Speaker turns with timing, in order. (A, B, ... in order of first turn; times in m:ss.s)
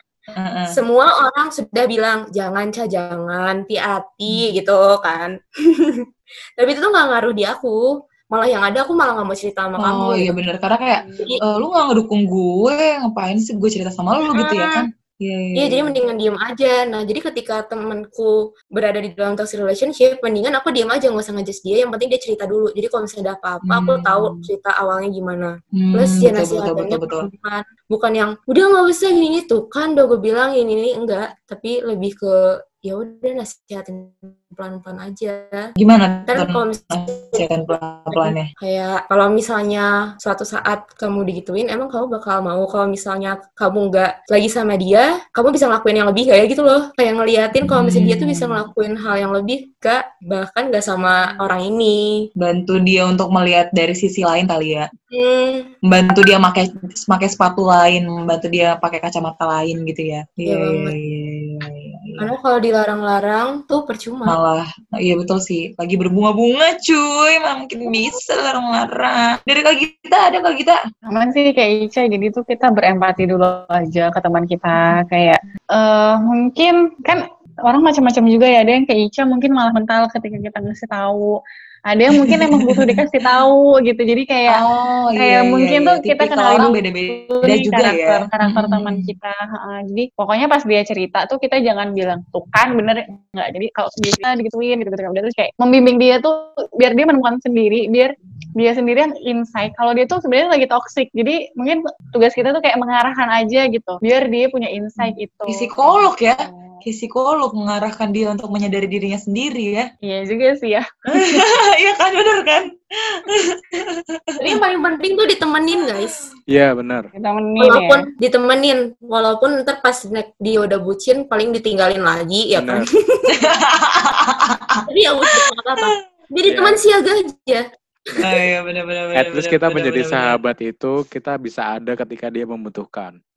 0:00.4-0:00.7 A
0:00.7-0:06.0 B
0:06.6-0:10.3 B
0:09.8-0:16.0 A
0:11.2-0:11.5 B
0:14.3-0:14.9 B
0:15.6-0:35.7 B
0:23.6-0:24.5 A
0:25.8-0:27.3 A
0:35.8-0:38.5 A
0:36.3-0:37.4 B
0:38.1-0:52.2 B
0:47.7-0:48.6 A
0:52.4-0:54.9 A
0:55.1-0:55.7 B
0:55.9-1:02.3 A
1:00.4-1:00.9 B
1:02.2-1:04.4 B
1:04.2-1:10.8 A
1:11.1-1:21.3 C
1:21.9-1:24.6 C
1:22.2-1:23.0 A
1:24.5-1:29.1 A
1:25.2-1:46.9 C
1:45.0-1:49.9 A
1:50.1-1:51.4 C
1:51.1-1:54.6 A
1:54.4-1:56.3 B
1:55.8-1:56.2 A
1:56.5-1:57.1 D
1:57.2-1:58.0 C
1:57.6-2:03.2 B
2:02.6-2:02.9 D
2:03.3-2:05.8 A
2:04.9-2:08.2 B
2:06.4-2:06.8 D
2:08.2-2:10.4 A
2:09.2-2:13.2 D